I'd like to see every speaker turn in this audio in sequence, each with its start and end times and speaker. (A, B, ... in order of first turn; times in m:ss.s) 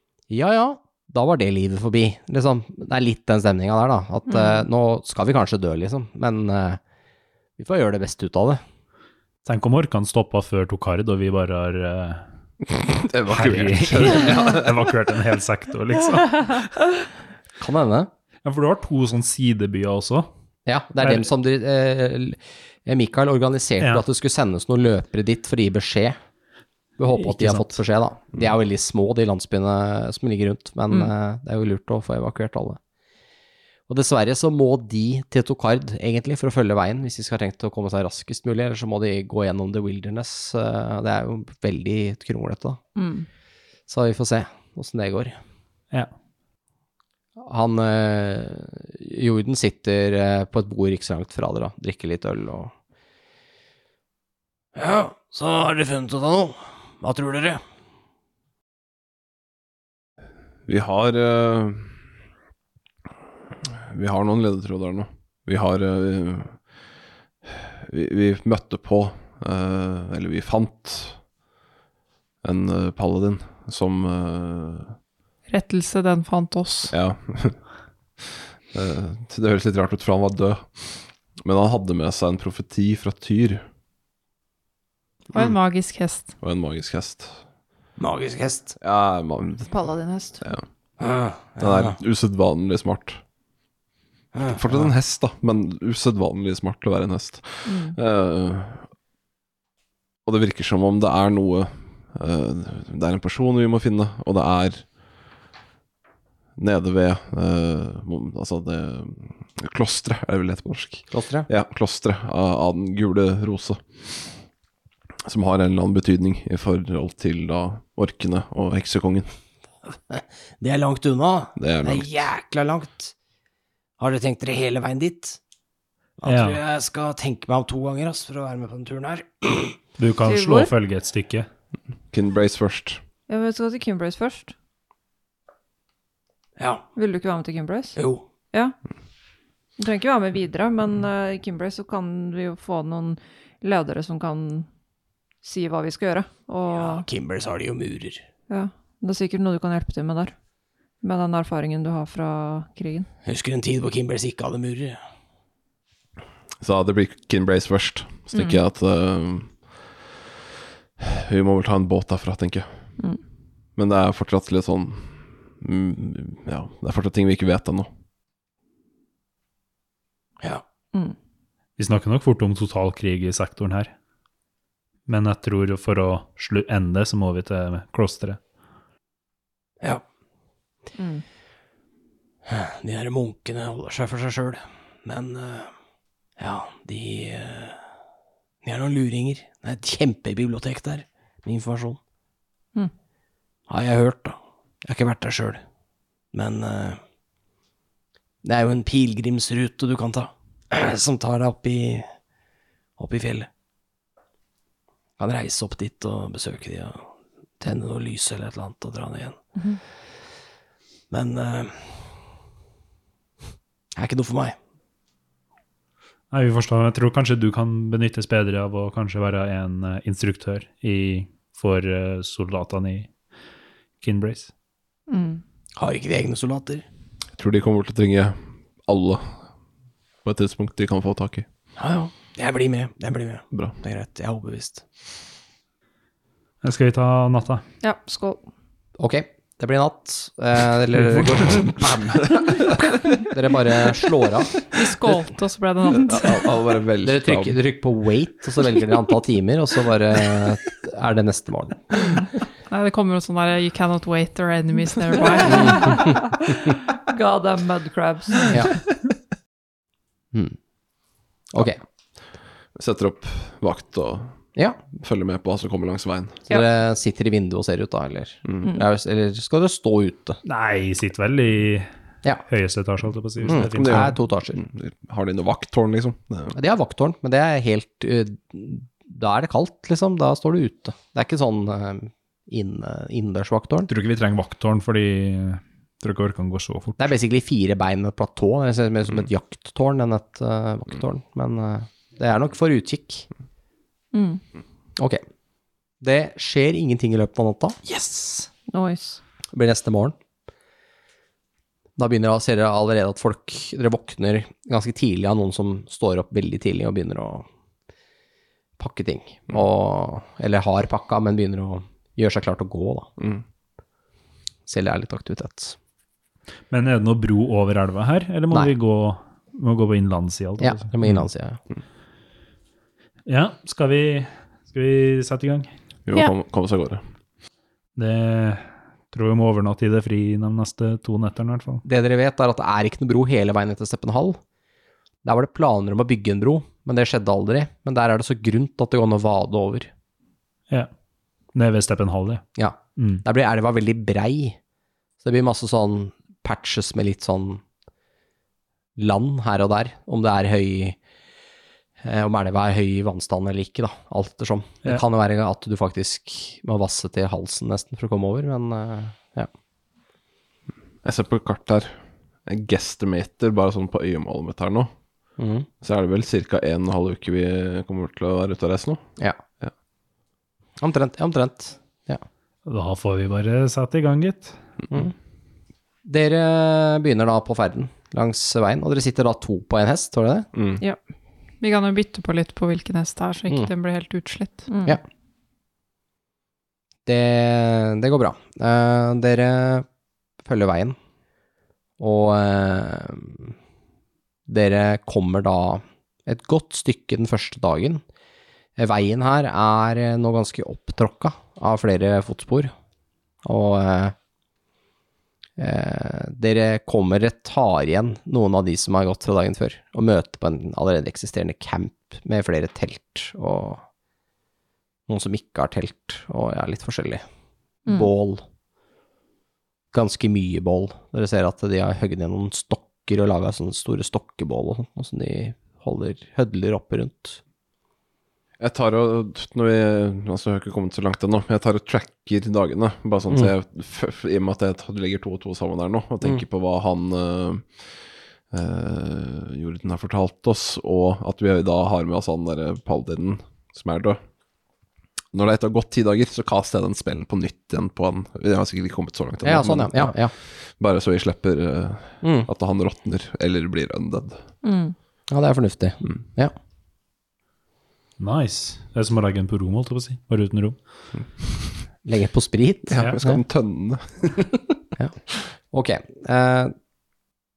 0:00.3-0:06.8 A
0:04.3-0:04.7 B
0:07.6-0:08.6 A
0:09.4-0:12.2 C
0:12.9-0:14.9 D
0:13.3-0:16.9 C
0:17.6-0:18.1 A
0:18.4-0:20.3 C
0:20.7-0:26.2 A
0:21.0-0:21.3 C
0:27.0-0:32.8 A
0:27.2-0:27.8 C
0:33.9-0:42.8 A
0:43.0-0:43.3 B
0:43.9-0:45.4 A
0:47.4-0:52.7 A
0:54.8-0:57.6 A
1:00.7-1:01.9 D
1:03.6-1:06.6 D
1:07.4-1:11.2 D
1:12.4-1:15.0 D
1:15.5-1:16.9 E
1:16.9-1:17.6 D
1:18.2-1:23.6 D
1:25.3-1:26.3 E
1:26.4-1:27.4 D
1:28.0-1:28.8 A
1:28.8-1:29.8 D
1:29.7-1:30.5 B
1:31.0-1:32.0 A
1:31.6-1:33.2 D
1:34.3-1:34.9 A
1:34.5-1:38.9 D
1:37.6-1:38.0 B
1:40.3-1:44.9 D
1:46.6-1:54.2 D
1:51.1-1:51.5 A
1:55.2-1:59.3 D
2:00.1-2:03.1 A
2:01.6-2:02.1 D
2:04.0-2:05.4 A
2:06.2-2:09.8 A
2:06.2-2:06.6 C
2:10.0-2:11.5 C
2:10.2-2:10.7 B
2:12.1-2:13.0 D
2:13.3-2:14.5 B
2:16.6-2:16.8 A
2:17.0-2:18.0 B
2:18.0-2:18.2 A
2:19.8-2:24.7 B
2:25.4-2:27.0 B
2:26.7-2:28.2 A
2:28.5-2:30.3 B
2:31.0-2:33.1 B
2:33.3-2:35.0 A
2:36.6-2:39.6 D
2:38.3-2:38.6 B
2:41.0-2:42.7 D
2:43.8-2:47.9 D
2:51.8-2:53.9 C
2:55.1-2:58.4 C
3:01.0-3:01.2 B
3:02.5-3:05.7 A
3:06.4-3:07.8 A
3:08.6-3:12.0 A
3:13.7-3:15.6 A
3:16.3-3:17.0 A
3:18.4-3:22.1 A
3:23.0-3:23.5 A
3:25.2-3:27.1 A
3:27.6-3:29.4 A
3:31.1-3:32.0 A
3:34.0-3:34.6 A
3:36.3-3:43.1 C
3:44.0-3:44.5 C
3:45.1-3:45.4 B
3:45.8-3:46.8 A
3:47.4-3:49.4 D
3:50.2-3:51.5 D
3:51.8-3:54.8 A
3:56.6-3:57.6 C
3:57.8-3:58.4 B
3:59.0-4:02.3 A
4:02.1-4:02.6 D
4:03.2-4:04.6 A
4:04.7-4:06.4 E
4:06.0-4:07.6 D
4:07.0-4:12.0 A
4:12.7-4:16.0 E
4:15.3-4:18.6 B
4:15.4-4:16.2 A
4:18.5-4:18.7 A
4:21.5-4:21.8 A
4:22.8-4:24.4 D
4:24.9-4:26.4 D
4:26.5-4:30.4 A
4:30.4-4:31.9 C
4:32.5-4:34.2 C
4:33.4-4:34.6 A
4:33.6-4:36.6 D
4:36.5-4:43.9 A
4:43.9-4:47.1 C
4:47.0-4:53.3 A
4:54.1-4:54.4 B
4:55.0-4:55.2 A
4:56.0-4:58.5 A
4:58.7-4:59.2 B
4:59.5-5:00.2 A
5:02.0-5:07.5 A
5:08.8-5:13.1 A
5:14.7-5:15.8 A
5:16.7-5:21.1 C
5:20.6-5:21.6 A
5:23.3-5:25.7 C
5:26.1-5:27.0 D
5:28.0-5:31.8 C
5:31.8-5:34.4 A
5:35.2-5:39.9 A
5:41.5-5:42.4 C
5:42.6-5:44.6 A
5:43.0-5:43.2 C
5:45.2-5:47.6 A
5:49.0-5:51.0 A
5:52.0-5:59.5 A
6:01.0-6:04.9 D
6:05.4-6:05.7 A
6:05.8-6:09.0 D
6:10.8-6:12.2 A
6:12.6-6:14.6 C
6:16.0-6:20.5 A
6:20.5-6:20.8 D
6:21.6-6:24.7 E
6:24.7-6:25.0 B
6:27.1-6:29.9 A
6:30.4-6:31.0 A
6:32.0-6:33.5 A
6:34.5-6:38.0 A
6:38.8-6:42.7 A
6:43.4-6:44.2 A
6:45.6-6:53.8 A
6:55.1-6:57.2 A
6:57.9-6:58.4 A
6:59.9-7:07.4 A
7:08.6-7:17.7 D
7:18.5-7:24.2 D
7:25.3-7:30.2 D
7:29.4-7:30.3 A
7:30.7-7:34.4 D
7:32.2-7:32.5 A
7:34.6-7:35.0 B
7:35.3-7:36.5 A
7:38.2-7:40.8 C
7:42.0-7:43.4 A
7:42.9-7:44.5 D
7:45.7-7:46.7 A